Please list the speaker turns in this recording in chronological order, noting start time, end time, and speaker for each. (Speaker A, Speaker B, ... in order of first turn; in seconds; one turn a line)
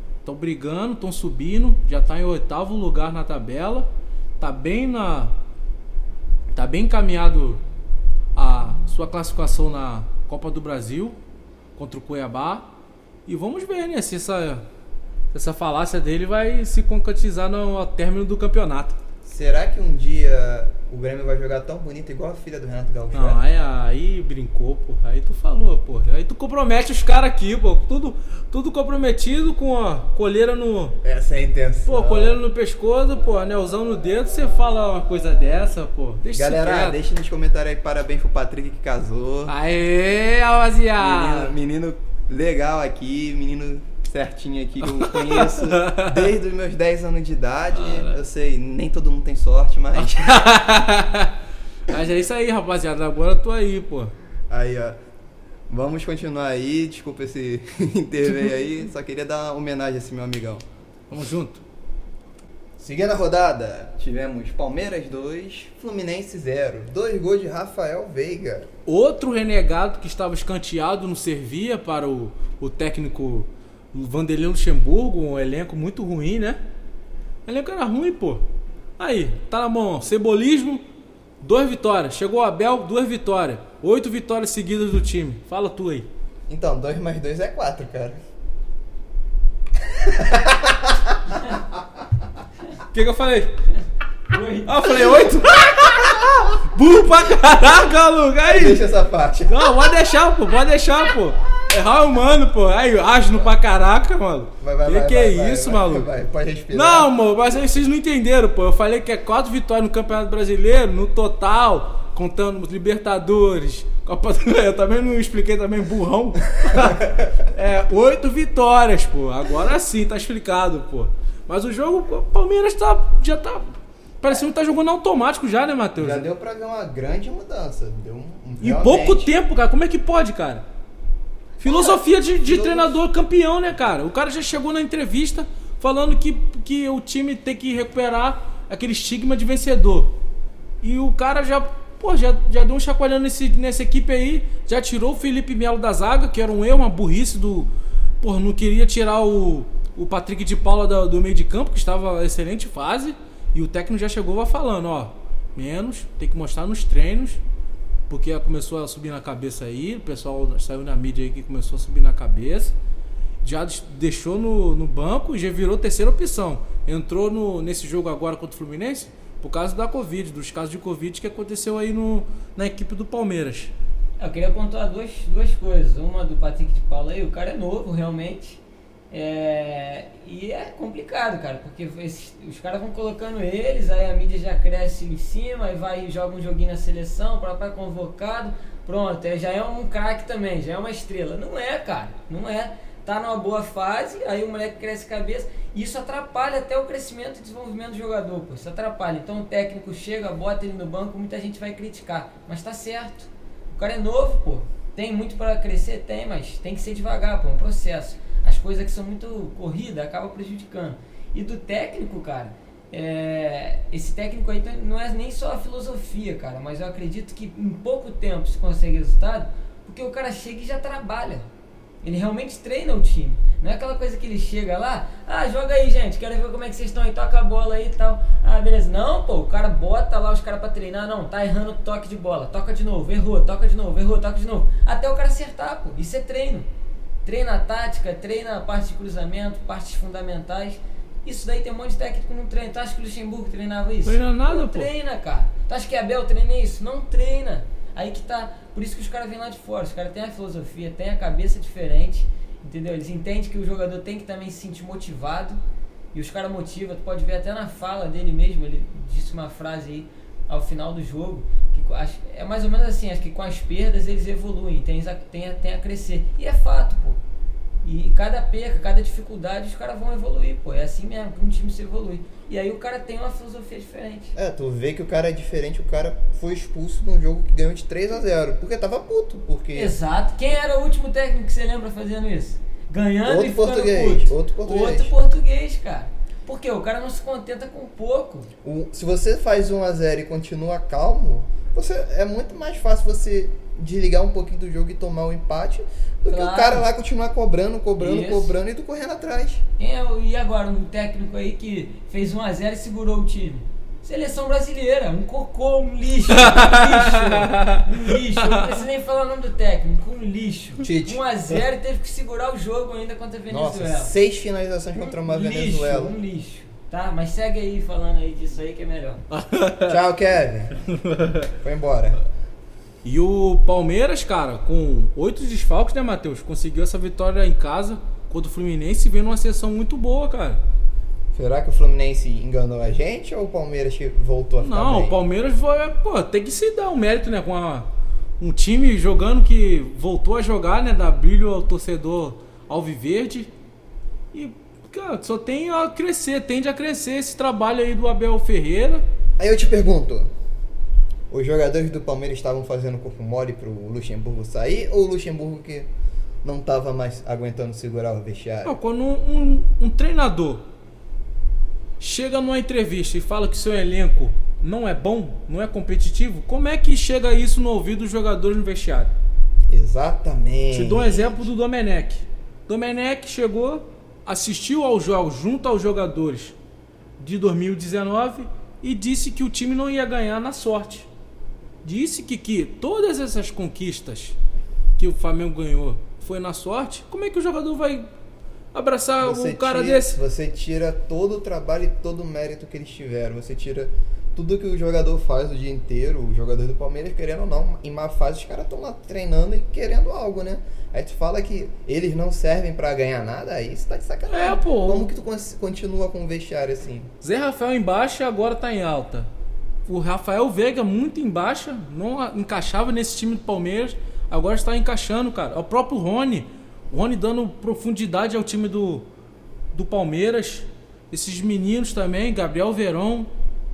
Speaker A: 0.2-3.9
Speaker A: 4.4-5.3
Speaker A: 6.5-7.6
Speaker A: 8.3-11.2
Speaker A: 11.8-12.7
Speaker A: 13.2-14.6
Speaker A: 15.3-19.0
Speaker B: 19.2-23.4
Speaker A: 23.1-31.0
Speaker B: 31.0-32.4
Speaker A: 31.9-37.0
Speaker B: 36.3-39.5
Speaker A: 39.5-41.5
Speaker B: 41.0-50.4
Speaker A: 44.9-46.3
Speaker A: 47.7-48.2
Speaker A: 49.9-51.3
Speaker A: 51.9-54.1
Speaker B: 54.5-55.0
Speaker B: 55.7-60.6
Speaker A: 61.1-61.6
Speaker B: 62.8-68.7
Speaker A: 68.8-76.6
Speaker A: 77.5-78.4
Speaker A: 79.0-80.8
Speaker A: 81.4-86.1
Speaker B: 86.5-88.2
Speaker B: 90.0-91.4
Speaker A: 92.9-93.5
Speaker C: 94.3-95.2
Speaker A: 94.6-98.8
Speaker B: 98.4-99.9
Speaker A: 99.5-106.1
Speaker B: 104.6-107.1
Speaker A: 106.7-126.3
Speaker B: 126.0-129.3
Speaker A: 128.6-130.6
Speaker A: 131.6-140.1
Speaker B: 131.6-133.0
Speaker A: 140.8-147.7
Speaker A: 148.2-157.4
Speaker A: 158.1-162.7
Speaker A: 163.4-173.7
Speaker C: 174.2-178.6
Speaker C: 179.1-221.5
Speaker C: 222.0-236.7
Speaker C: 237.2-255.6
Speaker A: 244.0-244.9
Speaker C: 256.1-267.2
Speaker C: 267.8-274.3
Speaker B: 274.3-279.9
Speaker C: 279.7-288.5
Speaker B: 283.2-285.1
Speaker B: 288.6-299.6
Speaker C: 296.3-296.9
Speaker C: 298.0-298.5
Speaker C: 299.8-314.1
Speaker A: 306.3-308.6
Speaker B: 310.8-311.6
Speaker B: 313.5-316.1
Speaker C: 314.9-319.2
Speaker A: 319.3-320.0
Speaker B: 319.9-320.8
Speaker A: 321.0-321.5
Speaker B: 321.6-322.2
Speaker A: 323.0-330.6
Speaker B: 331.3-335.2
Speaker A: 334.6-337.9
Speaker A: 338.4-343.5
Speaker A: 344.3-349.0
Speaker B: 349.4-350.3
Speaker B: 351.3-355.9
Speaker B: 356.4-358.7
Speaker A: 358.6-360.6
Speaker A: 362.0-369.1
Speaker B: 369.7-371.5
Speaker A: 370.7-376.6
Speaker A: 377.2-381.1
Speaker A: 381.8-384.4
Speaker A: 385.0-388.1
Speaker A: 388.7-390.2
Speaker B: 389.2-407.1
Speaker A: 404.3-405.1
Speaker A: 407.2-409.3
Speaker A: 409.9-419.1
Speaker A: 419.7-423.3